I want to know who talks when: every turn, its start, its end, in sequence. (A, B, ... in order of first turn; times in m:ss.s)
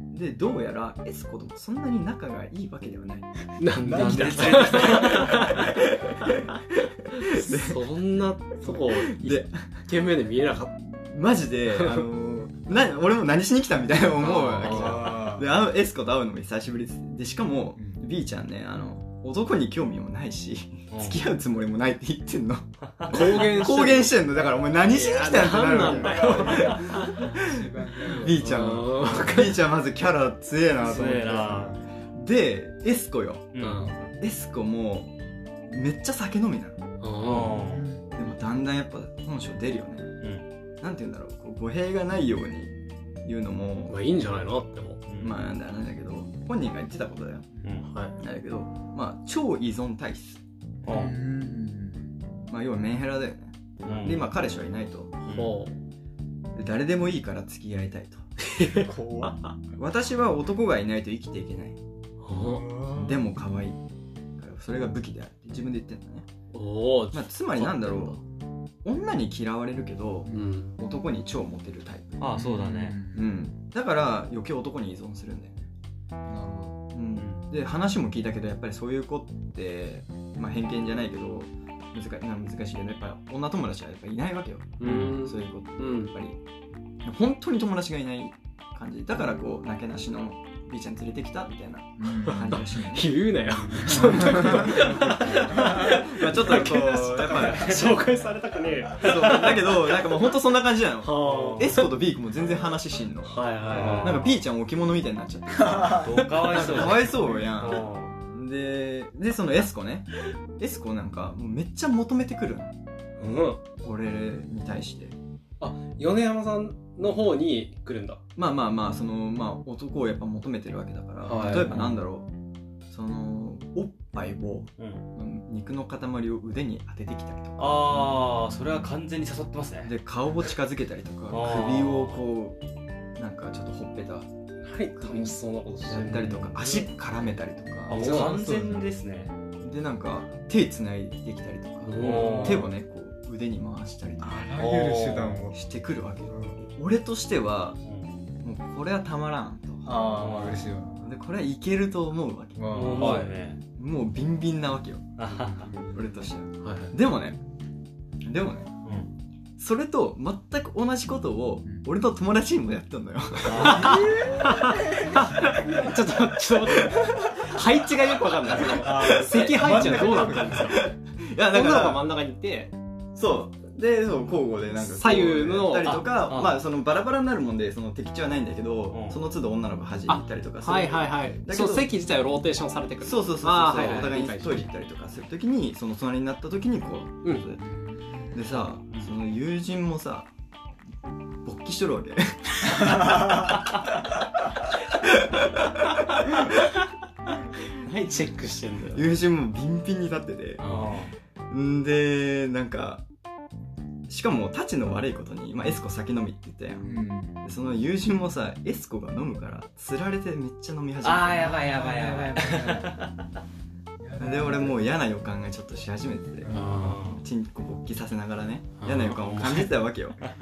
0:00.1-0:07.8 A
0:03.6-0:05.7 B
0:03.8-0:05.5 C
0:04.0-0:05.5 D
0:07.3-0:10.8 B
0:08.8-0:09.8 A
0:10.9-0:27.5 A
0:11.8-0:12.1 B
0:14.2-0:15.0 B
0:14.6-0:15.0 D
0:14.7-0:15.5 C
0:17.8-0:18.0 C
0:20.9-0:21.2 D
0:23.1-0:24.2 B
0:24.8-0:27.3 B
0:25.5-0:28.7 C
0:28.1-0:31.3 A
0:28.4-0:29.6 B
0:30.8-0:31.8 D
0:30.8-0:31.8 C
0:32.1-0:33.6 A
0:33.5-0:33.9 D
0:33.6-0:33.9 B
0:33.7-0:34.1 C
0:34.2-0:35.2 A
0:35.7-0:36.8 A
0:37.0-0:37.8 B
0:37.2-0:37.8 D
0:37.5-0:38.2 C
0:38.1-0:40.2 A
0:40.8-0:44.0 A
0:43.9-0:45.0 B
0:45.1-0:45.4 D
0:45.2-0:47.5 A
0:47.8-0:48.2 B
0:48.2-0:50.4 A
0:50.8-0:51.1 D
0:50.9-0:52.1 C
0:52.5-0:55.2 A
0:53.8-0:54.3 D
0:55.2-0:55.8 B
0:55.2-0:55.6 D
0:56.6-0:58.2 A
0:58.5-0:58.9 B
0:58.7-0:59.4 C
0:59.8-1:01.8 A
1:02.2-1:02.8 B
1:02.4-1:03.3 C
1:03.0-1:03.8 A
1:04.4-1:06.3 A
1:06.5-1:08.2 B
1:07.1-1:08.2 A
1:08.8-1:12.2 A
1:10.3-1:10.8 B
1:12.2-1:13.0 D
1:12.3-1:13.3 C
1:13.1-1:15.7 A
1:16.2-1:16.8 C
1:16.9-1:26.4 A
1:17.2-1:17.4 D
1:24.8-1:26.1 B
1:24.8-1:25.1 D
1:27.0-1:33.1 A
1:32.0-1:33.0 C
1:32.3-1:40.1 B
1:33.6-1:37.8 C
1:33.9-1:34.8 A
1:35.5-1:37.8 A
1:37.3-1:37.9 D
1:39.0-1:43.4 A
1:41.0-1:41.8 B
1:41.2-1:41.8 D
1:43.3-1:44.3 B
1:43.7-1:44.3 D
1:43.7-1:44.1 C
1:44.0-1:52.7 A
1:45.6-1:45.9 C
1:45.9-1:48.2 D
1:46.2-1:47.0 B
1:53.2-1:53.6 B
1:53.8-1:55.2 A
1:55.6-1:58.2 B
1:58.4-2:02.3 A
2:01.2-2:01.9 B
2:01.4-2:01.7 D
2:02.9-2:08.1 A
2:07.6-2:09.9 D
2:09.8-2:12.6 A
2:11.3-2:12.2 D
2:13.2-2:14.3 A
2:14.6-2:16.9 B
2:14.9-2:18.3 A
2:17.9-2:19.4 D
2:17.9-2:18.8 B
2:18.2-2:18.8 C
2:19.6-2:24.5 A
2:21.8-2:22.5 B
2:22.0-2:22.7 D
2:22.0-2:22.8 C
2:24.2-2:25.7 C
2:24.6-2:25.4 D
2:25.5-2:27.8 A
2:26.2-2:26.6 C
2:27.8-2:28.1 D
2:28.4-2:30.4 A
2:29.8-2:31.0 C
2:30.2-2:30.7 D
2:31.0-2:35.1 A
2:32.6-2:33.3 C
2:32.7-2:33.6 D
2:32.9-2:33.3 B
2:35.2-2:35.7 D
2:35.2-2:36.3 C
2:35.8-2:37.4 A
2:36.6-2:37.0 B
2:38.2-2:38.8 A
2:38.8-2:39.1 D
2:39.6-2:44.1 A
2:43.4-2:44.3 D
2:43.6-2:50.9 B
2:43.8-2:45.9 C
2:46.6-2:52.0 A
2:48.8-2:50.8 C
2:51.4-2:52.7 B
2:53.2-3:01.9 A
2:54.8-2:56.2 B
2:56.3-2:56.6 D
2:58.9-2:59.2 D
3:00.1-3:04.7 B
3:03.0-3:07.7 A
3:07.6-3:08.4 C
3:08.2-3:10.3 A
3:11.4-3:13.6 A
3:14.9-3:16.7 A
3:17.7-3:19.1 B
3:18.9-3:20.6 A
3:20.6-3:21.0 B
3:20.6-3:21.1 D
3:21.5-3:23.0 A
3:24.1-3:31.8 A
3:26.8-3:27.4 C
3:31.0-3:33.2 D
3:31.4-3:33.0 C
3:34.0-3:34.9 C
3:34.2-3:40.2 A
3:36.4-3:37.0 C
3:36.5-3:37.0 B
3:36.8-3:37.2 D
3:38.8-3:39.7 B